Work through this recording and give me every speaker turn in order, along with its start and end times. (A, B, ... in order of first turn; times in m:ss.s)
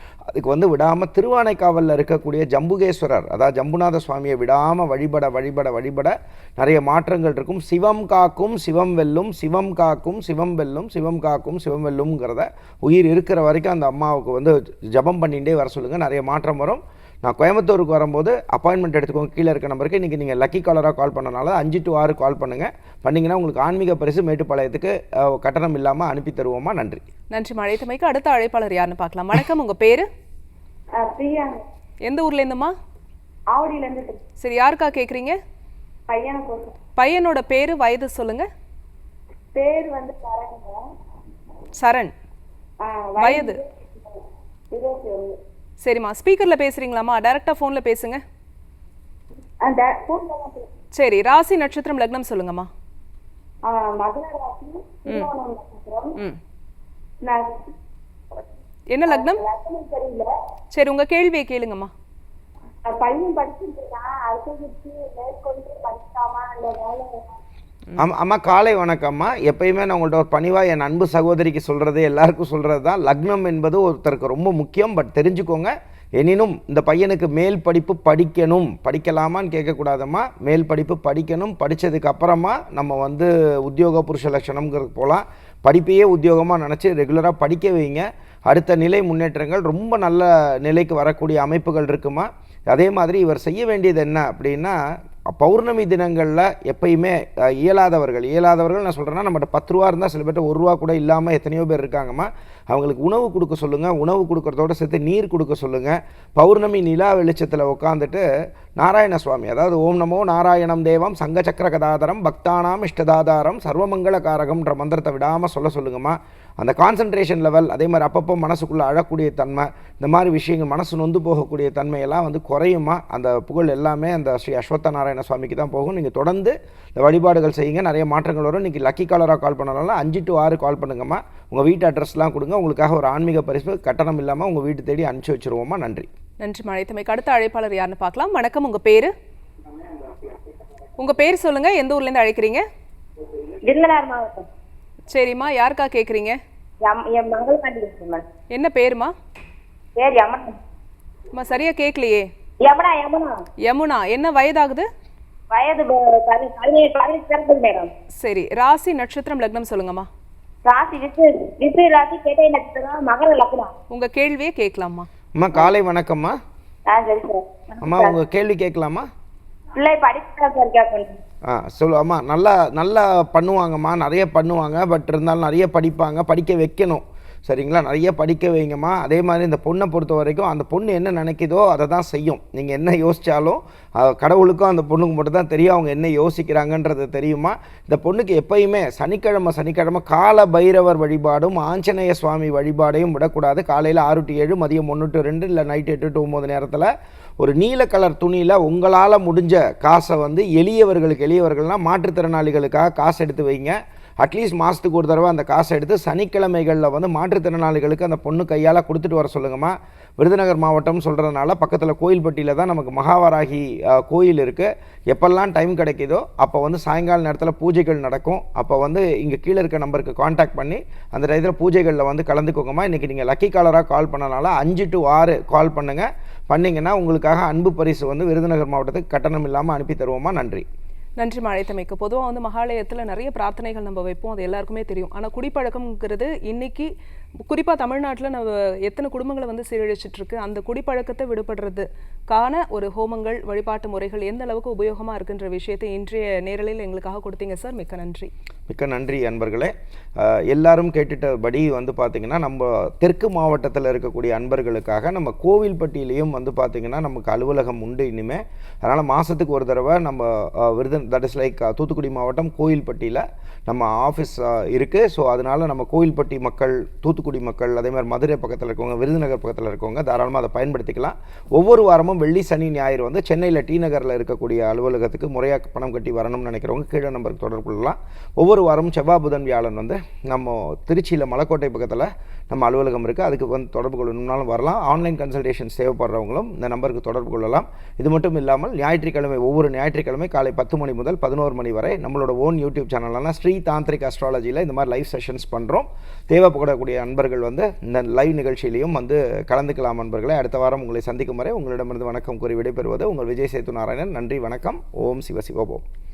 0:00.3-0:27.0 A
0:27.3-0:30.1 B
0:31.0-0:31.6 C
0:32.0-0:32.7 B
0:33.5-0:34.2 C
0:34.4-0:35.4 B
0:36.1-0:36.8 C
0:37.0-0:38.5 B
0:39.6-0:40.8 C
0:41.8-0:42.1 B
0:42.8-0:44.2 C
0:43.2-0:43.6 B
0:44.7-0:45.4 C
0:45.8-0:48.2 B
0:49.6-0:50.7 C
0:51.0-0:52.7 B
0:53.7-0:56.2 C
0:57.2-0:57.7 C
0:58.9-0:59.4 B
0:59.1-1:00.3 C
1:00.7-1:01.9 B
1:02.9-1:07.4 C
1:08.0-1:34.8 A
1:35.3-1:48.2 A
1:48.8-2:16.1 A
2:16.4-2:19.1 B
2:21.0-2:22.6 B
2:23.6-2:24.5 C
2:25.1-2:26.4 B
2:26.8-2:28.2 C
2:28.5-2:29.1 B
2:30.0-2:30.6 C
2:31.3-2:32.3 B
2:32.6-2:33.4 C
2:33.7-2:34.9 B
2:35.5-2:37.9 C
2:38.2-2:40.1 B
2:40.6-2:43.7 C
2:43.9-2:45.1 B
2:45.4-2:46.4 A
2:46.9-2:48.2 C
2:47.8-2:49.1 A
2:49.8-2:51.2 C
2:51.4-3:50.6 A
3:51.2-3:56.9 B
3:57.4-4:08.3 B
4:08.7-5:05.8 A